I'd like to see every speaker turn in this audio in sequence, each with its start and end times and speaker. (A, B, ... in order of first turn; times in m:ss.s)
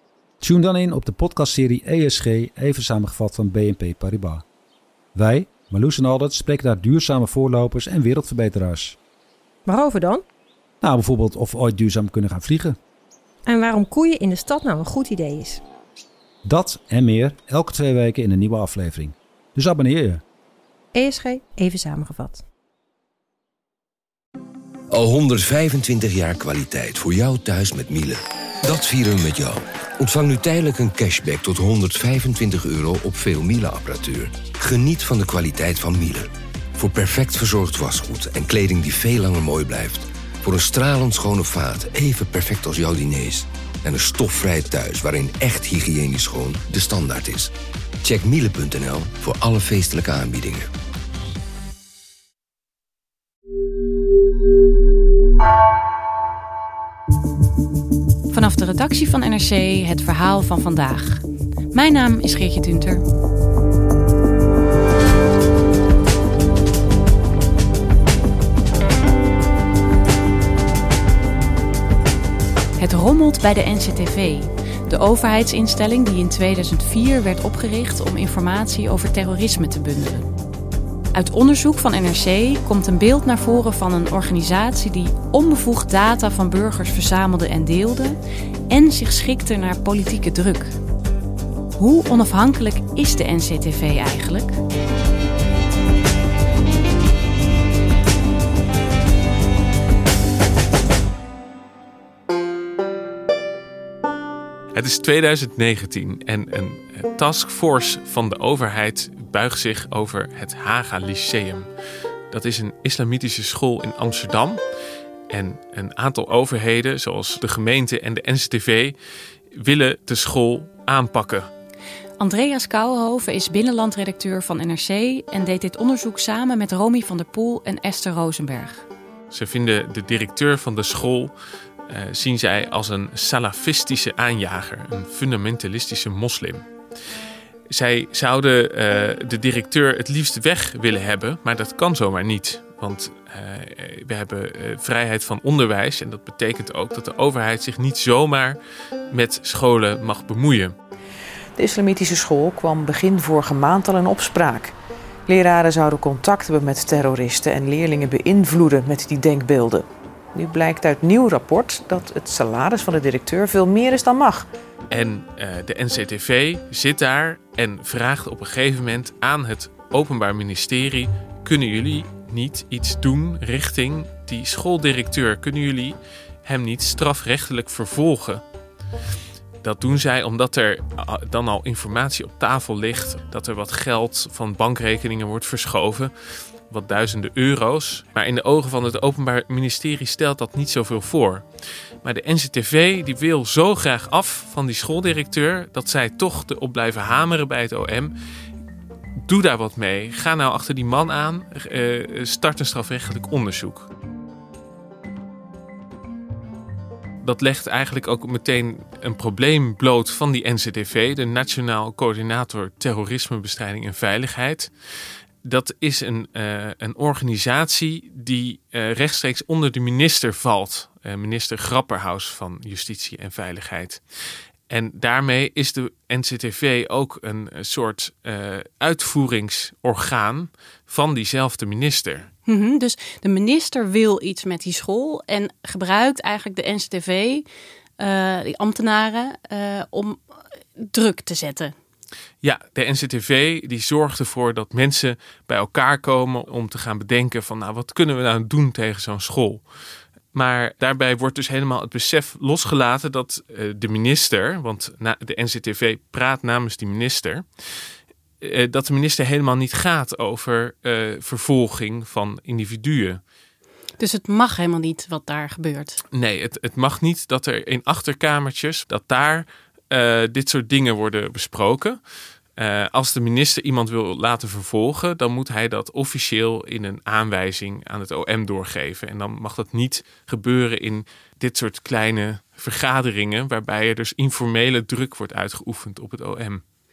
0:00.4-0:04.4 A
0:05.2-0:09.0 A
0:09.6-0:10.2 B
0:10.8-0:12.8 A
0:13.5-0:15.6 B
0:16.5-0:20.2 A
0:20.9-0:22.4 B
0:24.9-0:47.5 C
0:48.0-0:50.7 C
0:58.3-1:03.0 D
1:12.8-1:20.3 D
1:21.1-1:28.2 D
1:28.7-1:30.7 D
1:31.8-1:34.6 D
1:44.7-1:51.7 E
1:52.3-1:54.6 E
1:55.3-1:59.0 E
1:59.5-2:01.5 E
2:02.2-2:08.8 D
2:09.3-2:11.3 E
2:11.9-2:16.6 E
2:17.7-2:28.6 E
2:29.1-2:30.7 E
2:31.6-2:34.7 F
2:35.3-2:44.5 F
2:44.9-2:58.4 E
2:59.6-3:06.1 E
3:06.7-3:11.4 E
3:12.0-3:18.1 E
3:19.3-3:23.9 E
3:27.2-3:34.7 E
3:35.4-3:44.0 E
3:44.7-3:52.3 E
3:52.4-3:57.4 D
3:58.0-4:00.2 D
4:00.8-4:01.7 D
4:02.4-4:09.6 E
4:10.3-4:17.4 E
4:18.4-4:23.2 E
4:24.0-4:26.0 D
4:26.1-4:32.0 E
4:32.6-4:46.6 E